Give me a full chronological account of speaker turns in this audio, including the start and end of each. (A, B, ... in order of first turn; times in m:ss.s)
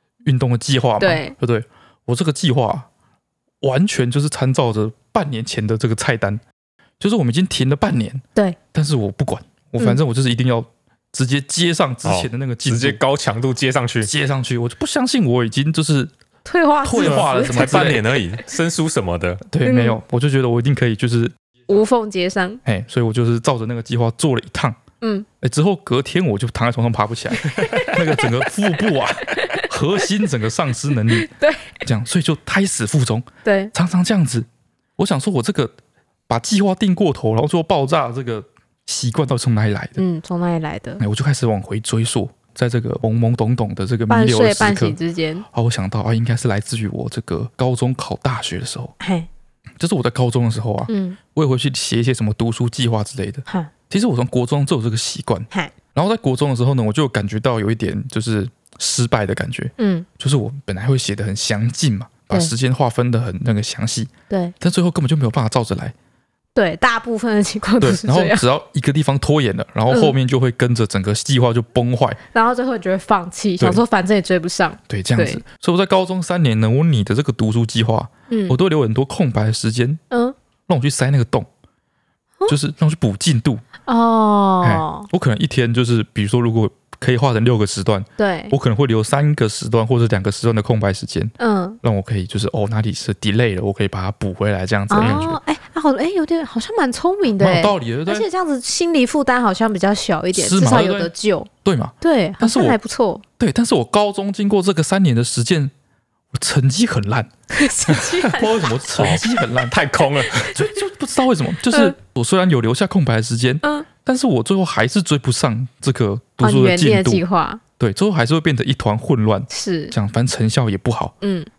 0:00.2-0:02.9 A
0:01.0-0:01.4 B
0:03.6-0:06.4 A
0:07.0-0:13.0 A
0:12.0-0:14.1 C
0:14.0-0:16.1 A
0:16.4-0:18.0 B
0:16.8-0:18.1 A
0:17.0-0:19.4 C
0:19.5-0:21.4 A
0:19.6-0:20.0 B
0:21.7-0:22.6 B
0:22.6-0:24.8 A
0:25.0-0:25.3 B
0:25.4-0:31.3 A
0:27.4-0:28.5 B
0:29.3-0:29.7 B
0:31.1-0:31.7 B
0:31.8-0:34.5 A
0:33.4-0:33.7 B
0:35.0-0:35.7 A
0:36.3-0:40.0 A
0:40.0-0:41.0 B
0:41.0-0:45.0 A
0:44.1-0:45.4 B
0:45.5-0:48.9 A
0:49.0-0:49.3 B
0:49.8-1:06.0 A
0:50.9-0:51.2 B
0:59.8-1:00.1 B
1:06.6-1:08.4 B
1:07.8-1:12.2 A
1:09.9-1:10.2 B
1:12.3-1:15.4 B
1:14.9-1:20.0 A
1:18.3-1:18.6 B
1:20.1-1:20.4 B
1:20.7-1:21.5 A
1:22.5-1:23.6 A
1:23.9-1:25.1 B
1:24.6-1:35.4 A
1:28.2-1:28.6 B
1:31.4-1:31.8 B
1:34.9-1:41.5 B
1:35.0-1:35.3 C
1:37.4-1:38.3 A
1:40.3-1:41.1 A
1:41.6-1:42.8 A
1:42.0-1:43.2 B
1:43.4-1:45.7 A
1:46.3-1:47.3 A
1:47.5-1:48.7 B
1:48.2-1:49.8 A
1:49.0-1:50.6 C
1:50.4-1:57.2 A
1:51.7-1:52.0 B
1:53.6-1:53.9 B
1:56.4-1:57.6 B
1:57.8-2:01.2 A
1:59.5-2:00.0 B
2:01.2-2:01.5 B